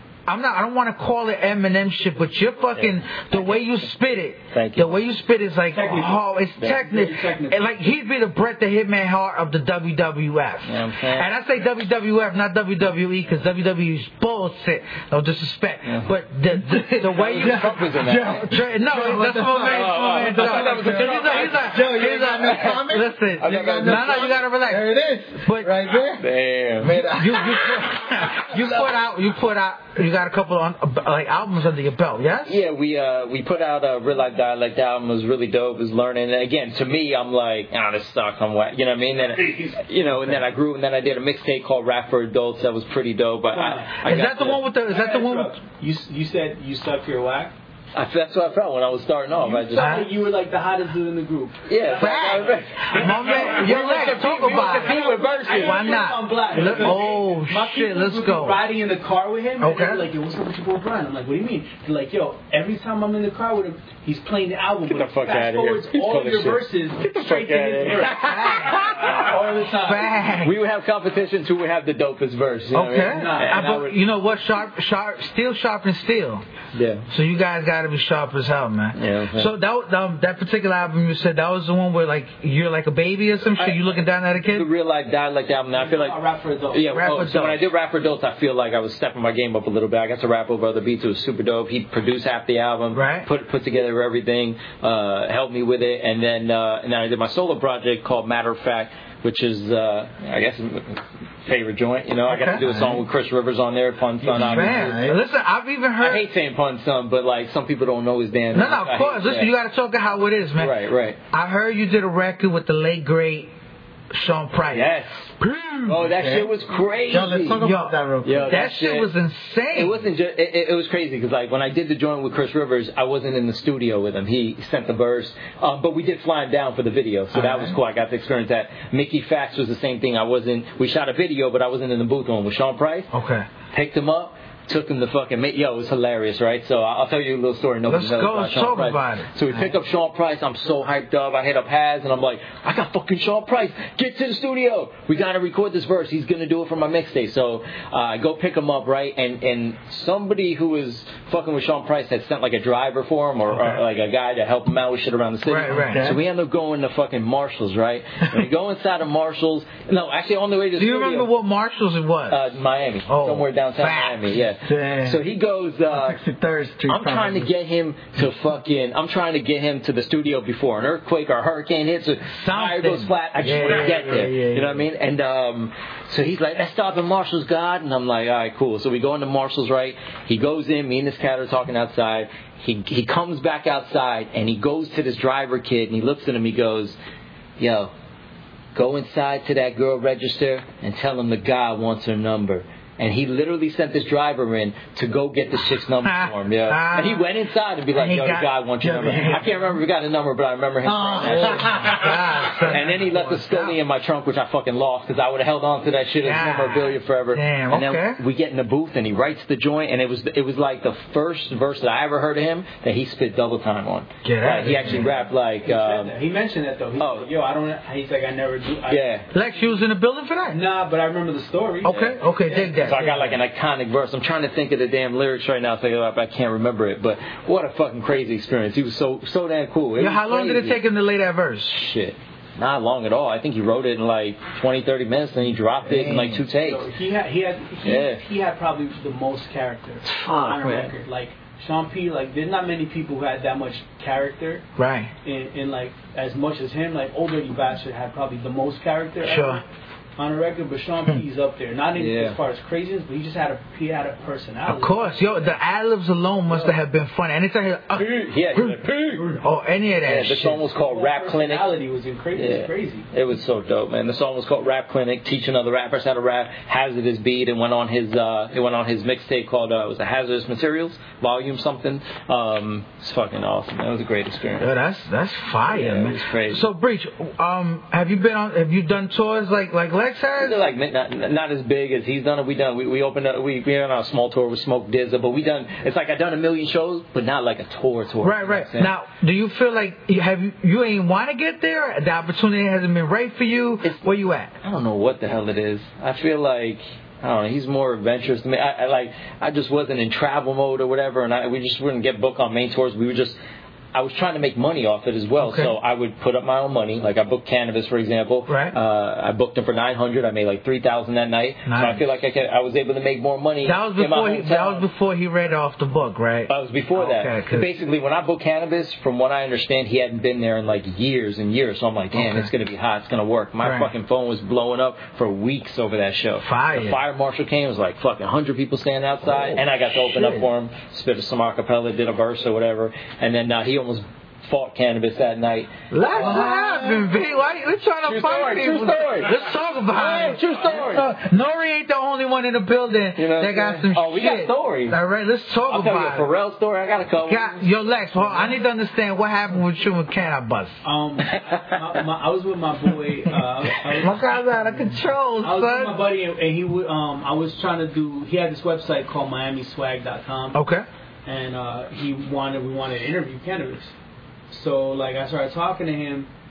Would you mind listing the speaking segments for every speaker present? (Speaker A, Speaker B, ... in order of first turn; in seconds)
Speaker A: 0.3-25.7, 27.1-32.6, 44.0-45.6, 49.8-50.1, 52.0-58.6, 59.6-60.0, 68.0-70.6, 72.7-76.4, 77.1-84.7, 86.9-87.7, 92.9-93.3, 102.3-102.8, 104.3-106.3, 108.5-110.8, 111.3-113.5, 114.1-116.0, 117.6-120.0, 133.1-133.5, 137.9-139.3, 155.5-156.1, 160.8-162.4, 163.1-164.3, 172.3-174.2, 196.0-197.3, 197.9-198.5, 201.2-203.8, 206.2-208.2, 214.2-215.1, 219.3-220.6, 221.8-223.3, 230.0-231.8, 244.8-245.1, 249.2-249.6, 254.7-260.6, 274.6-280.6, 288.2-294.5, 305.4-305.7, 308.5-308.8, 311.7-312.1, 313.6-317.7, 322.1-322.5, 323.6-323.9, 326.4-327.0, 335.9-346.3, 347.3-350.8, 353.9-356.0, 360.5-360.9
Speaker B: 4.5-5.0, 10.7-11.3, 17.0-18.5, 19.6-22.8, 23.4-24.4, 26.2-27.1, 32.5-44.6, 48.0-50.1, 51.7-57.0, 64.9-69.4, 70.4-74.0, 76.7-77.1, 79.0-79.5, 84.5-86.2, 86.7-105.1, 106.0-109.5, 110.6-111.2, 114.7-115.3, 115.9-117.7, 118.2-119.1, 119.7-133.1, 133.7-161.3, 162.3-166.2, 166.9-187.0, 187.6-187.9, 188.8-216.1, 217.0-217.3, 218.9-219.3, 221.8-230.8, 231.7-236.9, 237.8-238.2, 240.1-240.9, 252.0-252.4, 258.0-259.4, 260.0-261.8, 262.4-274.7, 275.7-276.7, 280.4-288.9, 294.6-303.4, 303.9-314.9, 316.5-336.6, 338.1-341.1, 343.2-345.0, 345.7-347.7, 351.3-351.7
Speaker C: 5.7-7.7, 43.5-44.0, 44.9-47.5, 49.4-70.2, 73.1-73.6, 85.7-87.0, 215.6-219.1, 220.5-223.0, 236.6-244.7, 245.2-249.6, 250.2-255.5, 260.7-263.1, 350.8-354.2, 355.4-360.6, 361.3-363.9, 364.5-366.3
Speaker D: 17.4-27.8, 104.2-105.2, 116.0-116.5, 117.1-118.6, 127.3-127.7, 155.7-156.2, 164.6-165.2, 165.9-167.5, 173.6-174.8, 198.8-199.6, 200.8-202.1, 235.9-236.4, 336.2-337.0